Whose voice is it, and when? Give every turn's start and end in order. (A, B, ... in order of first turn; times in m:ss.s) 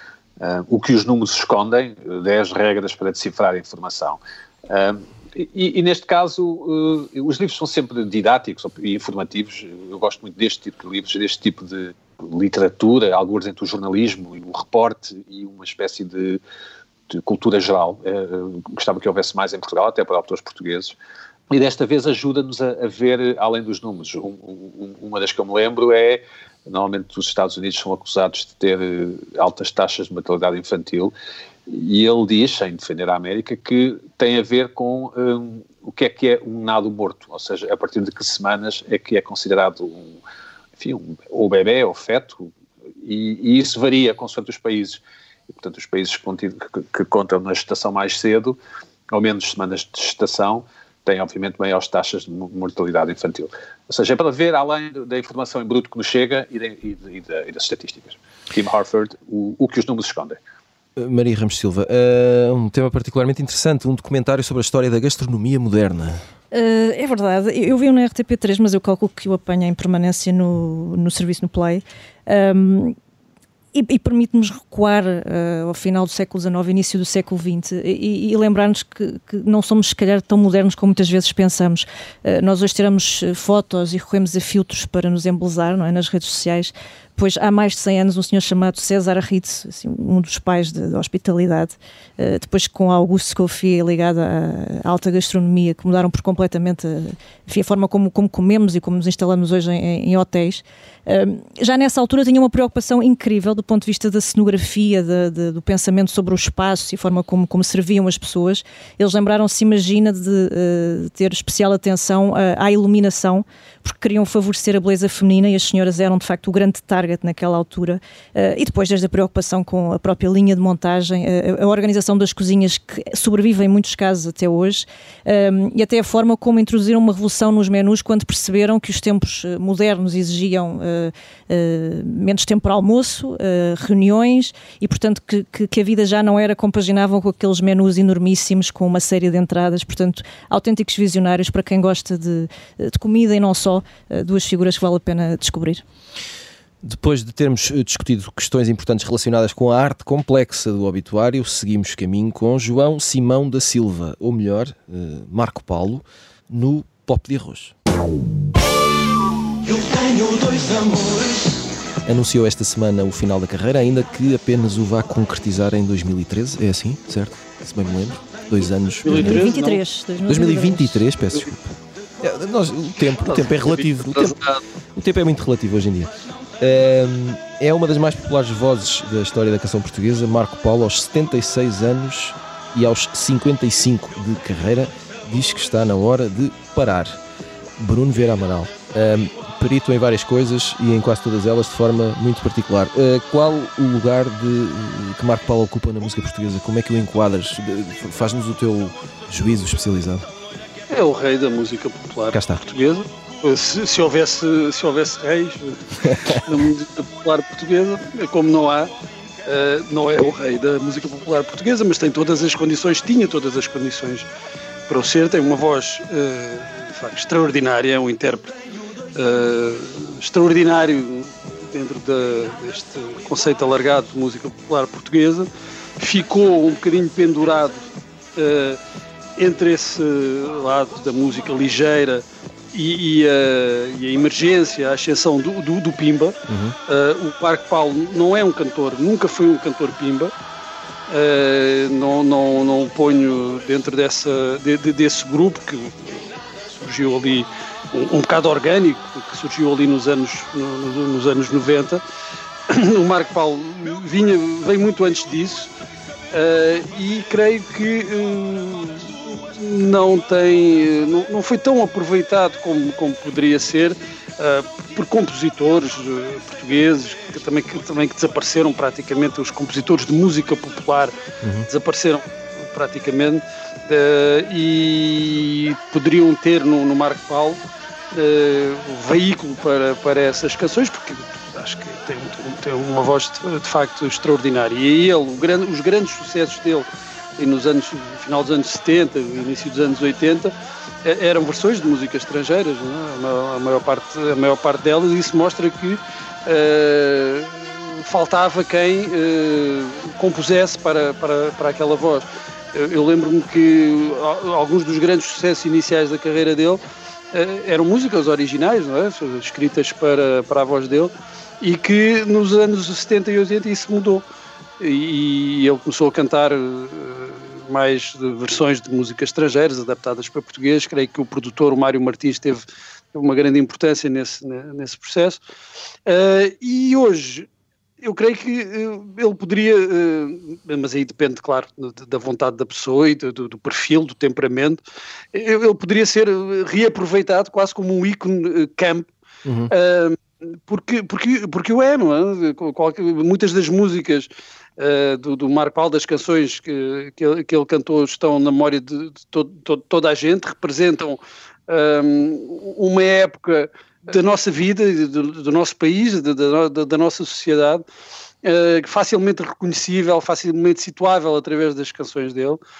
0:00.4-0:16.4 A
0:17.1-0:21.0 A
0:21.5-0:31.1 A
0:31.7-0:40.2 A
0:40.8-0:42.5 A
0:43.0-0:48.6 A
0:49.1-1:00.4 A
1:01.0-1:06.2 B
1:06.5-1:13.0 C
1:13.7-2:25.8 C
2:26.8-2:37.7 B
2:39.7-2:41.3 B
2:42.0-2:49.5 B
2:49.0-2:49.8 D
2:49.1-2:51.0 C
2:50.3-2:54.4 B
2:53.3-2:54.6 D
2:55.0-3:07.2 B
3:07.8-3:20.3 B
3:20.9-3:25.8 D
3:22.3-3:22.6 B
3:26.3-3:28.9 D
3:29.5-3:34.3 D
3:34.9-3:38.5 D
3:39.2-3:45.5 D
3:46.0-3:47.8 D
3:48.4-3:48.8 D
3:49.4-3:56.4 D
3:56.5-3:56.8 B
3:56.9-4:00.3 D
4:01.1-4:12.0 D
4:12.7-4:15.7 D
4:16.3-4:31.1 D
4:31.4-4:31.7 B
4:31.7-4:37.6 D
4:38.1-4:46.9 D
4:47.4-4:50.5 D
4:51.0-5:06.8 D
5:07.3-5:14.2 D
5:14.8-5:25.4 D
5:26.1-5:27.5 D
5:28.0-5:34.8 D
5:35.3-5:39.1 D
5:39.4-5:39.7 B
5:39.7-5:57.8 D
5:58.4-6:02.6 D